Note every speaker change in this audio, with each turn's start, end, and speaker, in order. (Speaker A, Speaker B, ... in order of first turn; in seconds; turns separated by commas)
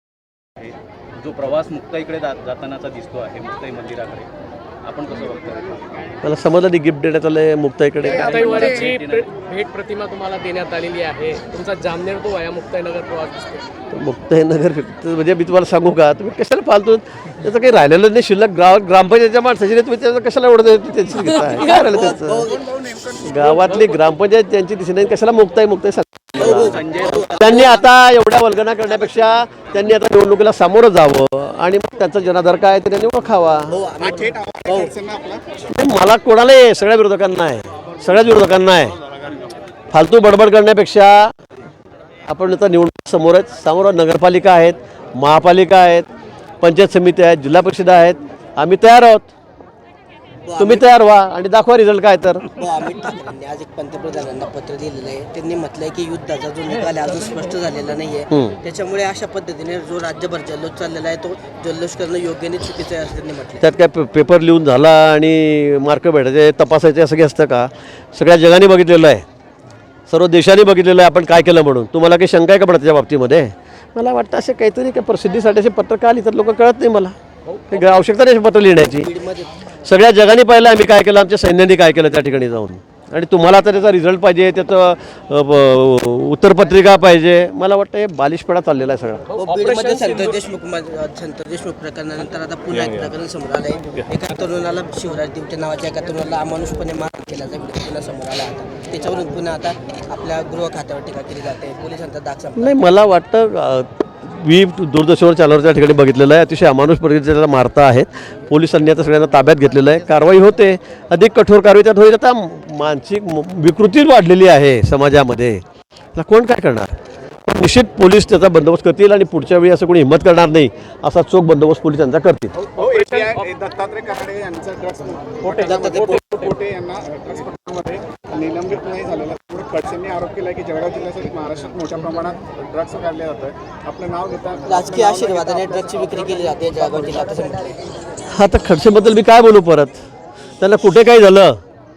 Speaker A: 0.6-4.3, Speaker A: 4.8-5.8, Speaker B: 6.2-8.7, Speaker C: 8.0-13.6, Speaker A: 8.2-9.2, Speaker B: 13.9-22.5, Speaker D: 21.6-22.7, Speaker E: 22.5-23.6, Speaker B: 23.2-26.8, Speaker C: 23.6-24.0, Speaker D: 26.4-27.9, Speaker A: 26.4-27.5, Speaker B: 27.3-33.7, Speaker D: 33.7-34.9, Speaker E: 34.0-35.4, Speaker B: 35.7-39.0, Speaker B: 39.9-41.3, Speaker B: 42.3-46.1, Speaker B: 46.6-49.3, Speaker D: 50.4-50.9, Speaker B: 50.6-52.4, Speaker D: 52.5-63.6, Speaker B: 63.6-69.2, Speaker B: 70.1-77.1, Speaker C: 77.5-78.0, Speaker B: 77.7-79.1, Speaker D: 78.9-79.5, Speaker B: 79.8-89.2, Speaker C: 89.3-90.4, Speaker D: 89.4-102.8, Speaker B: 102.5-115.6, Speaker B: 116.1-116.9, Speaker B: 117.5-122.5, Speaker C: 122.5-123.5, Speaker E: 122.8-136.4, Speaker C: 125.4-126.5, Speaker D: 134.7-137.8, Speaker B: 138.3-140.0, Speaker B: 140.6-141.6